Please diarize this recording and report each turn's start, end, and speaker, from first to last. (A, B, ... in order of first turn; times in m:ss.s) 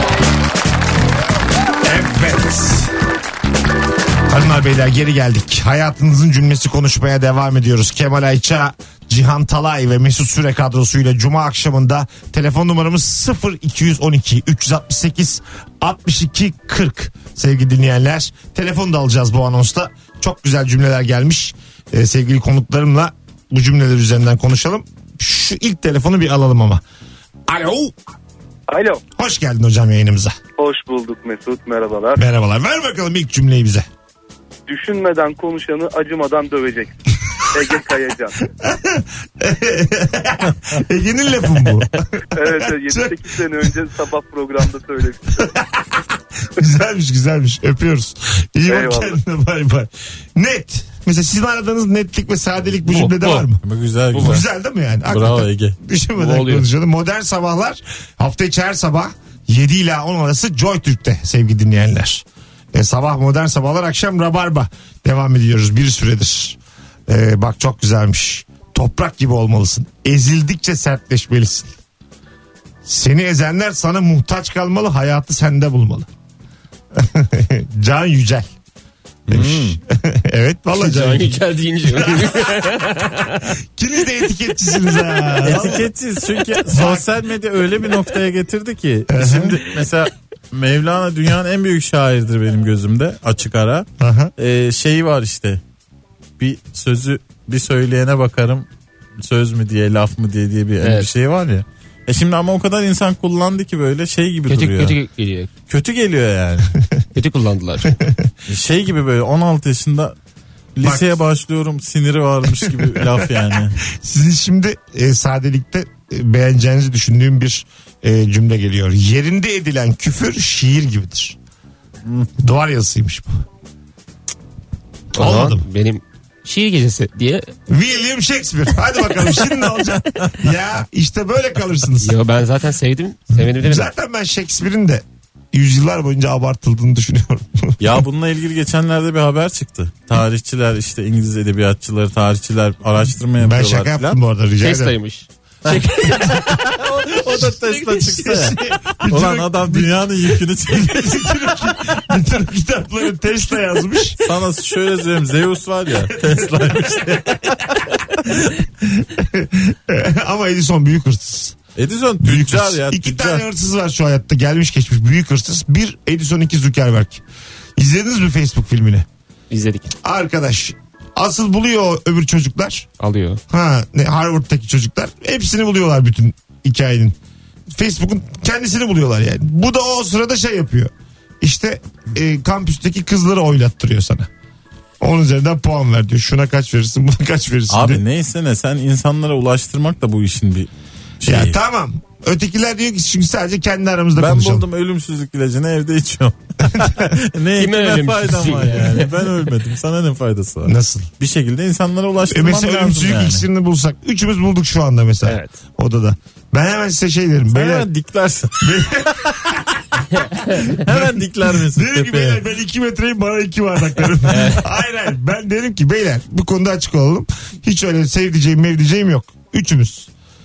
0:01.8-0:03.0 A
0:04.2-0:26.8 A
0:27.5-0:27.9 A
0:28.7-0:29.0 B
0:29.2-0:30.4 A
0:30.6-0:32.2 B
0:32.2-0:33.9 A
0:34.7-0:37.0 B
0:37.5-0:38.3 B
0:38.5-0:43.6 A
0:42.3-0:45.4 B
0:45.4-0:53.6 A
0:48.7-0:49.2 B
0:52.8-0:53.4 C
0:53.2-0:54.4 D
0:54.2-0:54.4 C
0:54.2-1:11.7 A
0:55.1-0:55.8 D
0:56.2-0:56.7 C
1:12.8-1:16.1 A
1:16.9-1:18.5 A
1:19.3-1:19.8 D
1:19.3-1:22.6 A
1:20.7-1:23.5 C
1:23.7-1:25.8 A
1:25.4-1:25.8 C
1:25.4-1:35.6 D
1:26.7-1:27.0 A
1:29.1-1:29.6 A
1:34.0-1:34.3 A
1:36.4-1:38.7 D
1:39.2-1:45.0 D
1:40.8-1:41.1 C
1:44.5-1:45.5 C
1:45.7-1:46.7 D
1:47.1-1:48.0 C
1:47.9-1:48.3 A
1:48.5-1:50.1 D
1:50.8-1:53.8 D
1:50.8-1:51.1 A
1:52.5-2:01.4 A
2:02.4-2:03.3 A
2:05.1-2:07.5 C
2:05.2-2:05.6 A
2:07.7-2:12.2 A
2:12.0-2:13.9 C
2:13.4-2:18.0 A
2:17.8-2:24.2 D
2:23.4-2:25.0 A
2:24.6-2:27.7 C
2:25.6-2:31.8 D
2:25.7-2:26.4 A
2:27.3-2:34.2 A
2:34.2-2:38.0 D
2:38.2-2:41.6 A
2:41.8-2:43.4 D
2:42.2-2:47.2 A
2:47.8-2:49.1 A
2:49.5-2:49.9 C
2:50.0-2:52.9 A
2:53.0-2:53.4 C
2:53.5-2:57.1 A
2:57.7-3:04.3 A
3:05.0-3:08.0 A
3:07.7-3:10.7 D
3:11.2-3:11.6 D
3:11.2-3:14.7 A
3:14.2-3:23.4 D
3:16.7-3:17.1 A
3:17.6-3:19.1 C
3:20.6-3:21.1 A
3:22.3-3:27.9 A
3:25.2-3:25.6 C
3:27.5-3:29.6 D
3:28.6-3:29.7 A
3:30.2-3:30.6 C
3:30.5-3:32.4 D
3:30.7-3:31.1 A
3:31.6-3:40.1 A
3:34.2-3:34.6 C